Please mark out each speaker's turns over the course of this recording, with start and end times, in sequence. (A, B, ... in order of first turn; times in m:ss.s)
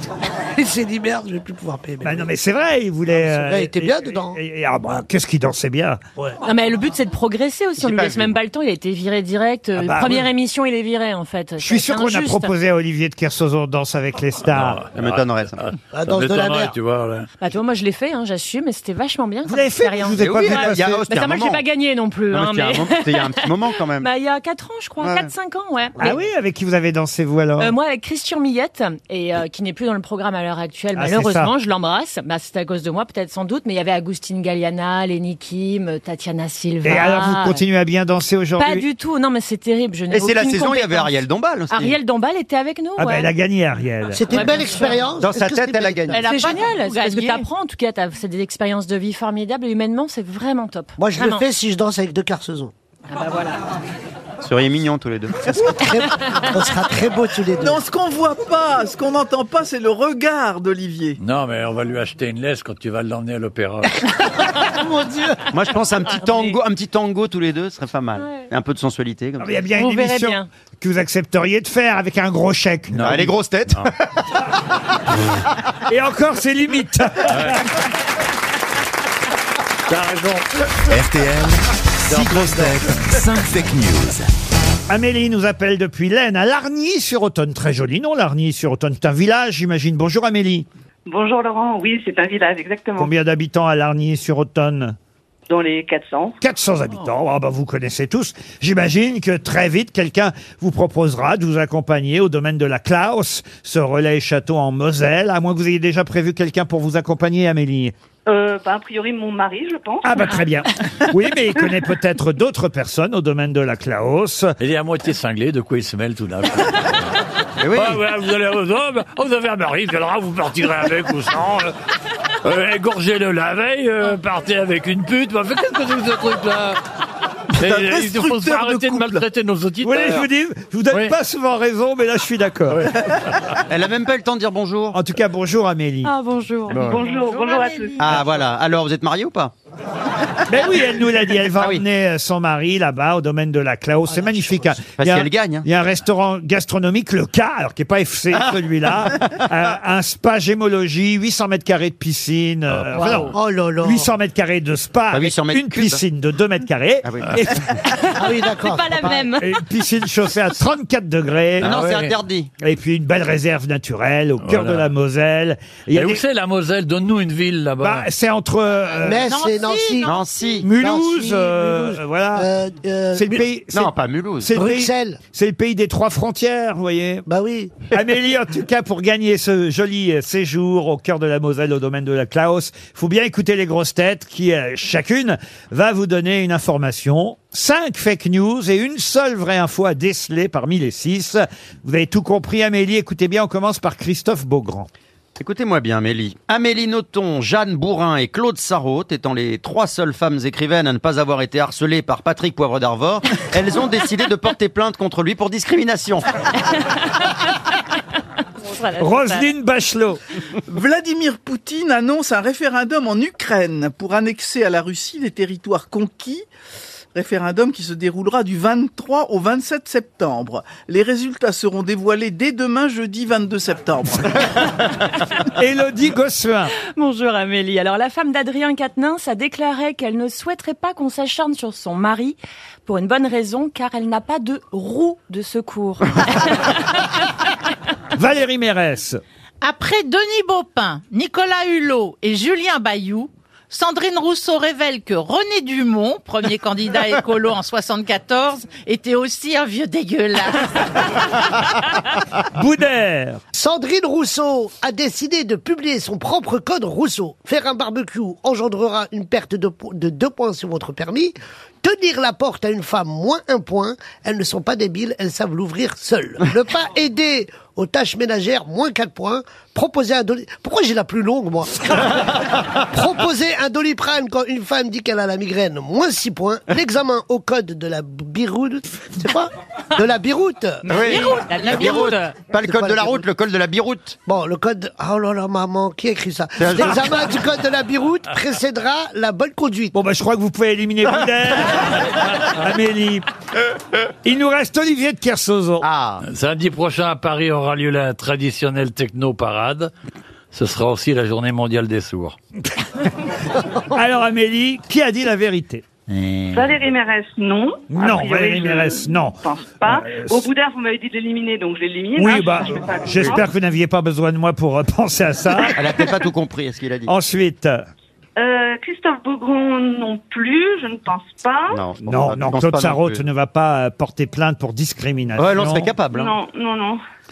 0:00.4-0:02.3 A
0:02.0-0:06.0 B
0:03.1-0:04.4 A
0:06.4-0:12.5 C
0:07.8-0:08.4 D
0:09.8-0:10.3 B
0:11.6-0:14.8 B
0:14.5-0:17.3 E
0:14.9-0:15.6 D
0:15.9-0:16.7 A
0:17.4-0:26.1 C
0:19.4-0:21.0 B
0:20.2-0:21.6 D
0:22.3-0:24.1 D
0:25.0-0:25.3 D
0:26.0-0:27.7 B
0:27.6-0:37.6 C
0:31.0-0:31.5 B
0:36.8-0:38.8 B
0:38.6-0:41.2 C
0:40.1-0:42.0 D
0:41.7-0:43.3 C
0:43.0-0:44.4 B
0:44.1-0:46.2 A
0:44.3-0:45.1 C
0:45.2-0:46.2 D
0:46.1-0:47.4 F
0:46.1-0:51.4 C
0:51.0-0:52.7 A
0:53.1-0:53.6 C
0:54.4-0:55.7 D
0:55.5-0:57.8 A
0:57.6-1:01.2 G
1:01.2-1:04.0 E
1:04.8-1:05.3 A
1:05.5-1:09.5 D
1:06.1-1:06.6 C
1:08.2-1:08.4 C
1:09.4-1:13.0 B
1:09.7-1:10.5 C
1:12.9-1:13.3 E
1:13.0-1:13.9 D
1:15.9-1:17.7 B
1:17.3-1:17.6 E
1:19.9-1:20.5 E
1:20.9-1:24.3 H
1:22.1-1:23.1 E
1:24.9-1:30.6 B
1:31.0-1:33.1 I
1:33.0-1:35.0 B
1:35.5-1:36.4 I
1:36.4-1:47.9 B
1:48.2-1:50.4 I
1:50.0-1:54.5 B
1:54.6-1:57.0 E
1:57.6-1:58.0 D
1:57.7-2:01.7 E
2:02.4-2:06.8 E
2:07.5-2:10.2 E
2:07.5-2:09.2 G
2:09.8-2:12.9 B
2:10.9-2:11.1 E
2:12.7-2:13.2 E
2:13.7-2:15.0 D
2:14.9-2:16.1 B
2:16.0-2:16.9 C
2:16.7-2:17.0 D
2:16.7-2:18.2 I
2:16.9-2:18.3 F
2:18.0-2:19.5 D
2:20.5-2:37.8 B
2:21.6-2:21.8 D
2:24.1-2:24.8 A
2:24.9-2:25.6 D
2:29.1-2:29.4 D
2:32.7-2:33.3 E
2:32.9-2:33.2 C
2:33.3-2:34.1 A
2:35.1-2:36.0 D
2:37.0-2:37.4 D
2:38.1-2:39.3 A
2:38.4-2:39.5 C
2:39.4-2:41.8 B
2:41.6-2:42.1 E
2:41.6-2:42.5 D
2:42.6-2:46.2 B
2:44.4-2:44.9 E
2:45.9-2:48.1 E
2:47.8-2:49.3 B
2:49.0-2:53.4 A
2:49.2-2:50.2 F
2:50.0-2:50.7 D
2:50.6-2:52.5 B
2:53.1-2:57.2 B
2:53.7-2:54.5 D
2:54.5-2:55.2 A
2:57.2-2:57.9 A
2:57.9-3:14.9 B
3:15.4-3:26.3 D
3:26.9-3:27.4 C
3:28.6-3:29.5 C
3:29.0-3:30.2 B
3:30.7-3:36.4 G
3:37.1-3:44.6 G
3:45.6-3:46.7 B
3:46.9-3:57.1 C
3:58.1-3:59.2 B
3:59.6-4:10.8 F
4:12.5-4:13.4 B
4:13.5-4:32.1 A
4:32.9-4:41.9 A
4:40.9-4:44.2 D
4:40.9-4:42.3 C
4:41.0-4:42.2 F
4:42.6-4:43.2 A
4:44.2-4:49.9 A
4:46.6-4:47.4 D
4:49.9-4:53.2 B
4:54.2-4:55.8 B
4:55.8-4:56.2 D
4:56.2-4:59.9 E
5:00.5-5:02.4 E
5:03.9-5:05.8 B
5:06.1-5:06.8 E
5:06.5-5:13.5 I
5:07.9-5:10.5 B
5:12.2-5:15.8 B
5:15.8-5:17.1 D
5:17.1-5:17.8 B
5:18.4-5:21.8 I
5:21.7-5:23.2 D
5:22.0-5:25.9 B
5:25.4-5:26.3 D
5:26.1-5:27.0 I